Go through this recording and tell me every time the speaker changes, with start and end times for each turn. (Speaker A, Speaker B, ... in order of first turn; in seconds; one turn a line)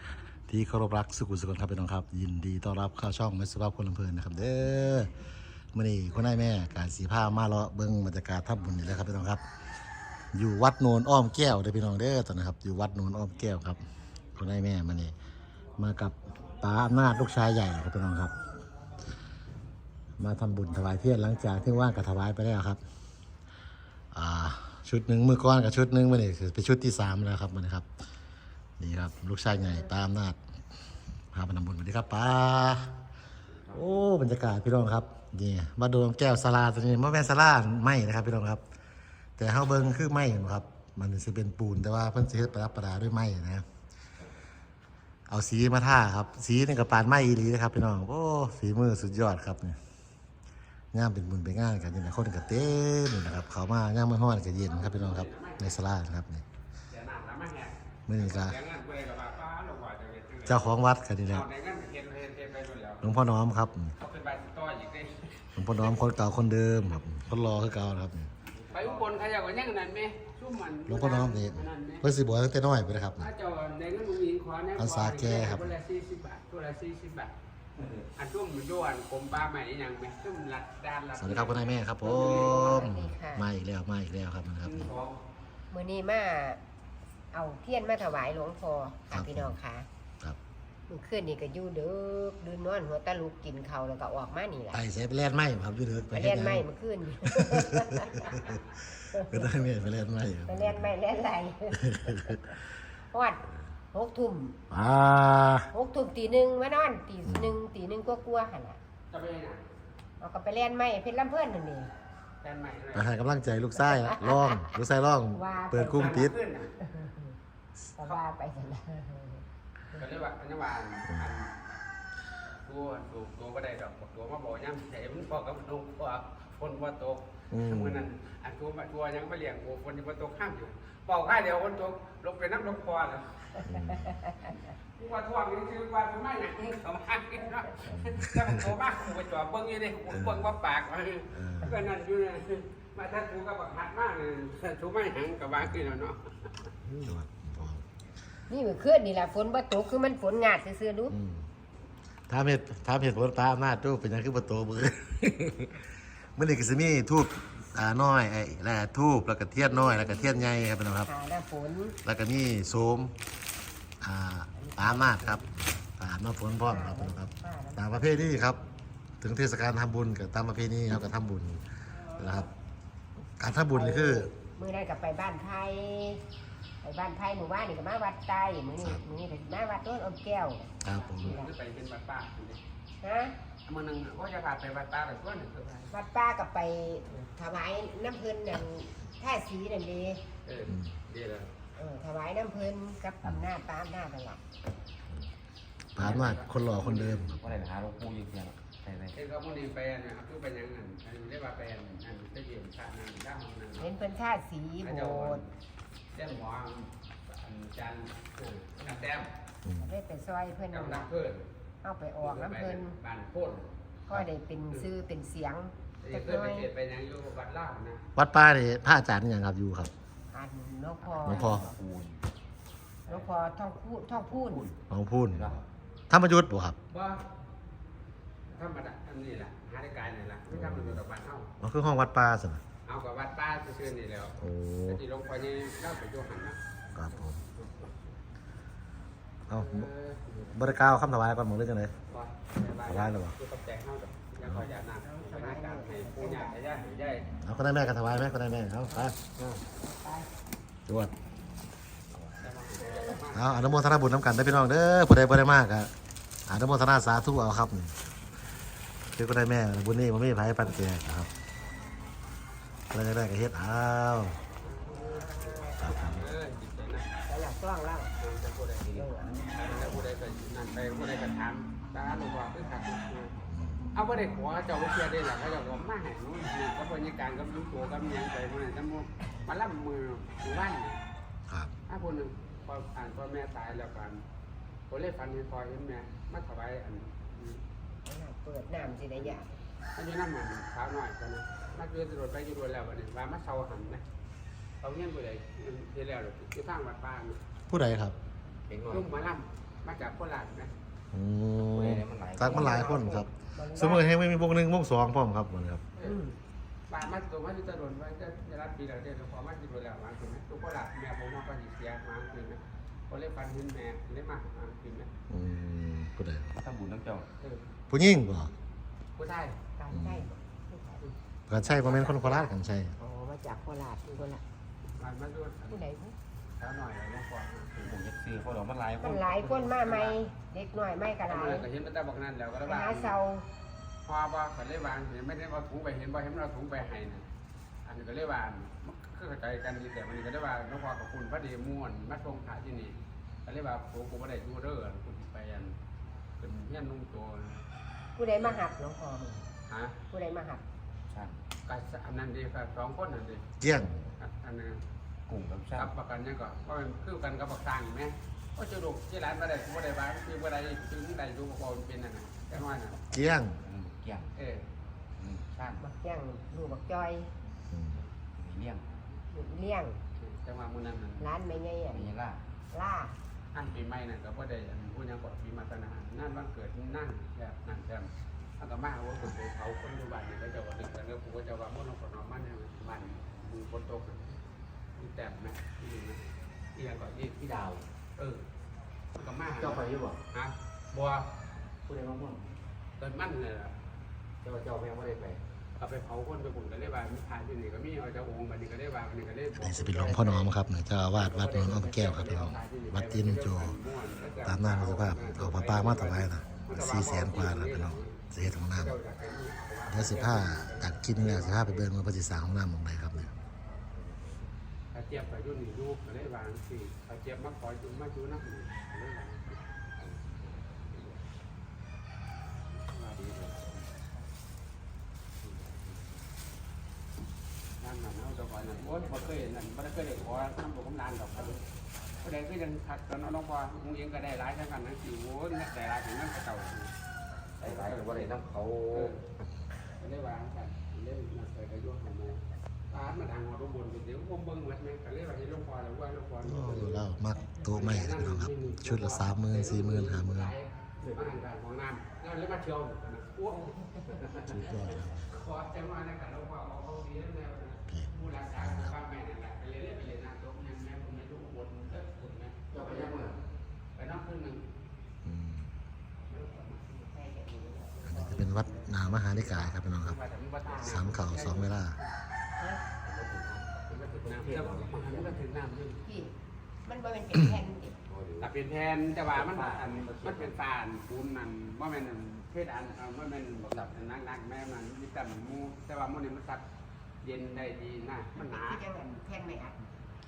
Speaker A: 0.5-5.1
Speaker A: 5.7-9.4
Speaker A: 10.3-15.1
Speaker A: 15.8-18.4
Speaker A: 20.2-22.8
Speaker A: 24.1-27.9
Speaker A: 28.8-30.4
Speaker A: 31.3-32.9
Speaker A: 33.7-38.6
Speaker A: 39.4-43.6
Speaker A: 45.3-49.8
Speaker A: 50.9-56.5
Speaker B: 54.6-55.8
Speaker B: 56.9-60.8
Speaker A: 58.1-58.6
Speaker A: 60.5-61.5
Speaker B: 61.3-63.1
Speaker A: 63.0-64.0
Speaker B: 64.0-66.0
Speaker A: 65.6-68.3
Speaker C: 68.5-69.2
Speaker B: 68.7-72.1
Speaker A: 70.9-73.3
Speaker B: 73.2-77.3
Speaker A: 74.8-75.7
Speaker C: 77.8-78.1
Speaker B: 78.2-82.9
Speaker A: 81.2-84.9
Speaker D: 82.1-83.5
Speaker C: 84.6-85.2
Speaker D: 85.7-86.6
Speaker D: 87.3-89.9
Speaker A: 89.1-89.6
Speaker D: 90.9-94.8
Speaker A: 94.7-96.7
Speaker D: 96.1-98.6
Speaker A: 97.2-100.9
Speaker D: 99.1-99.5
Speaker D: 100.5-102.4
Speaker A: 101.8-102.4
Speaker D: 103.1-104.6
Speaker A: 104.7-105.7
Speaker D: 105.7-108.8
Speaker A: 107.3-107.6
Speaker B: 109.1-109.6
Speaker D: 110.2-111.9
Speaker B: 112.4-113.2
Speaker A: 112.9-116.4
Speaker D: 113.8-114.8
Speaker D: 115.3-117.3
Speaker B: 115.9-116.7
Speaker D: 118.0-119.4
Speaker B: 119.9-121.5
Speaker B: 122.7-133.6
Speaker A: 127.5-128.1
Speaker A: 133.6-134.2
Speaker D: 134.1-134.5
Speaker B: 134.9-146.7
Speaker A: 137.9-138.7
Speaker A: 140.1-140.6
Speaker A: 141.3-141.9
Speaker A: 145.6-145.9
Speaker A: 147.0-147.8
Speaker D: 148.5-151.2
Speaker A: 151.1-151.5
Speaker A: 152.3-161.1
Speaker D: 159.6-162.0
Speaker A: 162.0-163.2
Speaker A: 164.0-168.6
Speaker D: 164.6-165.4
Speaker D: 166.7-167.8
Speaker A: 169.2-172.5
Speaker A: 173.4-174.3
Speaker D: 173.7-176.2
Speaker D: 176.8-181.5
Speaker A: 180.8-181.4
Speaker B: 180.8-182.6
Speaker D: 183.0-183.3
Speaker B: 183.7-185.9
Speaker D: 185.9-190.2
Speaker B: 190.4-191.5
Speaker A: 190.7-191.0
Speaker D: 191.8-194.4
Speaker A: 195.9-197.6
Speaker B: 196.0-197.2
Speaker C: 196.0-196.4
Speaker C: 197.0-199.2
Speaker B: 199.1-203.9
Speaker D: 203.8-205.4
Speaker B: 204.8-205.5
Speaker B: 206.1-209.3
Speaker A: 209.7-209.9
Speaker D: 209.8-211.1
Speaker B: 210.7-211.5
Speaker D: 211.8-213.0
Speaker B: 212.2-213.7
Speaker D: 214.1-216.7
Speaker B: 216.0-218.0
Speaker A: 218.2-219.9
Speaker D: 220.3-221.7
Speaker C: 221.0-222.2
Speaker A: 221.3-221.7
Speaker D: 223.1-224.7
Speaker C: 224.4-224.8
Speaker A: 224.9-225.6
Speaker C: 225.3-225.6
Speaker A: 226.1-226.8
Speaker B: 226.9-227.3
Speaker B: 228.5-231.5
Speaker A: 230.5-231.0
Speaker A: 231.6-232.6
Speaker B: 232.9-236.6
Speaker A: 234.4-235.0
Speaker A: 236.9-237.4
Speaker A: 239.5-239.9
Speaker B: 239.5-240.5
Speaker A: 240.5-241.9
Speaker B: 242.1-247.3
Speaker A: 242.8-243.4
Speaker A: 244.4-244.7
Speaker D: 245.1-246.6
Speaker A: 247.2-249.2
Speaker C: 249.4-249.6
Speaker D: 249.8-250.3
Speaker A: 250.9-251.1
Speaker C: 252.1-253.1
Speaker B: 252.4-253.9
Speaker A: 253.3-255.9
Speaker A: 256.5-258.0
Speaker A: 259.1-261.3
Speaker A: 262.9-264.4
Speaker B: 264.6-267.1
Speaker D: 265.1-265.7
Speaker A: 265.8-266.3
Speaker D: 267.3-268.1
Speaker B: 268.2-273.4
Speaker D: 268.9-270.0
Speaker A: 273.5-273.9
Speaker B: 273.9-281.0
Speaker B: 281.9-284.2
Speaker B: 284.9-287.6
Speaker D: 288.1-289.5
Speaker B: 289.9-294.0
Speaker B: 294.8-297.4
Speaker A: 297.7-298.2
Speaker C: 298.7-299.1
Speaker B: 298.9-300.7
Speaker A: 301.1-305.9
Speaker C: 301.6-302.9
Speaker D: 302.4-304.1
Speaker B: 305.9-306.2
Speaker D: 306.0-306.4
Speaker B: 306.9-315.1
Speaker A: 315.3-316.5
Speaker C: 316.6-317.3
Speaker B: 317.4-317.7
Speaker A: 317.9-318.5
Speaker B: 319.2-319.6
Speaker D: 319.8-321.1
Speaker A: 319.9-320.3
Speaker A: 321.5-322.9
Speaker B: 321.8-322.2
Speaker D: 321.8-322.5
Speaker D: 323.0-324.4
Speaker B: 324.9-325.8
Speaker D: 325.7-326.1
Speaker B: 326.6-327.9
Speaker C: 327.8-329.8
Speaker D: 329.0-331.7
Speaker B: 329.8-330.2
Speaker B: 331.3-333.2
Speaker D: 332.6-333.5
Speaker B: 334.1-337.3
Speaker B: 337.9-345.8
Speaker B: 346.4-347.6
Speaker D: 348.2-349.5
Speaker B: 349.7-350.0
Speaker D: 350.1-350.6
Speaker C: 351.1-351.4
Speaker B: 351.7-353.5
Speaker A: 353.6-354.0
Speaker B: 354.2-354.8
Speaker C: 355.3-355.9
Speaker B: 355.8-363.0
Speaker A: 363.1-363.6
Speaker C: 363.6-364.3
Speaker B: 364.4-364.6
Speaker C: 365.2-365.8
Speaker D: 365.8-367.3
Speaker A: 367.7-368.0
Speaker C: 368.4-368.9
Speaker D: 369.3-370.0
Speaker B: 370.2-371.3
Speaker D: 371.2-372.1
Speaker C: 371.9-372.4
Speaker D: 372.7-373.2
Speaker B: 373.5-384.4
Speaker B: 385.0-386.2
Speaker B: 386.8-387.3
Speaker C: 387.3-387.9
Speaker B: 388.2-388.4
Speaker B: 389.1-391.3
Speaker C: 389.6-390.2
Speaker C: 391.9-392.5
Speaker B: 393.0-393.8
Speaker C: 394.4-395.4
Speaker B: 395.8-400.5
Speaker A: 399.6-403.8
Speaker B: 401.1-411.9
Speaker A: 404.4-409.0
Speaker A: 409.9-413.3
Speaker C: 413.9-414.4
Speaker B: 414.9-419.6
Speaker C: 420.0-420.7
Speaker B: 422.8-423.2
Speaker C: 423.2-423.8
Speaker C: 425.4-426.1
Speaker B: 427.8-431.6
Speaker C: 428.8-429.4
Speaker B: 432.2-436.9
Speaker B: 437.6-438.3
Speaker C: 437.6-439.3
Speaker B: 438.9-439.2
Speaker B: 440.0-447.1
Speaker A: 446.4-450.6
Speaker B: 447.7-462.8
Speaker C: 451.0-451.4
Speaker A: 454.5-455.2
Speaker A: 457.9-459.0
Speaker C: 462.7-463.4
Speaker B: 464.0-464.7
Speaker A: 465.2-465.7
Speaker B: 466.3-466.9
Speaker D: 466.9-468.4
Speaker A: 468.0-470.2
Speaker B: 469.2-472.1
Speaker A: 470.7-472.0
Speaker D: 472.6-472.8
Speaker C: 473.0-475.4
Speaker B: 473.9-476.0
Speaker D: 476.0-476.3
Speaker D: 476.9-478.0
Speaker C: 478.1-478.5
Speaker B: 478.4-486.6
Speaker C: 479.2-480.6
Speaker B: 487.2-488.8
Speaker D: 488.4-489.9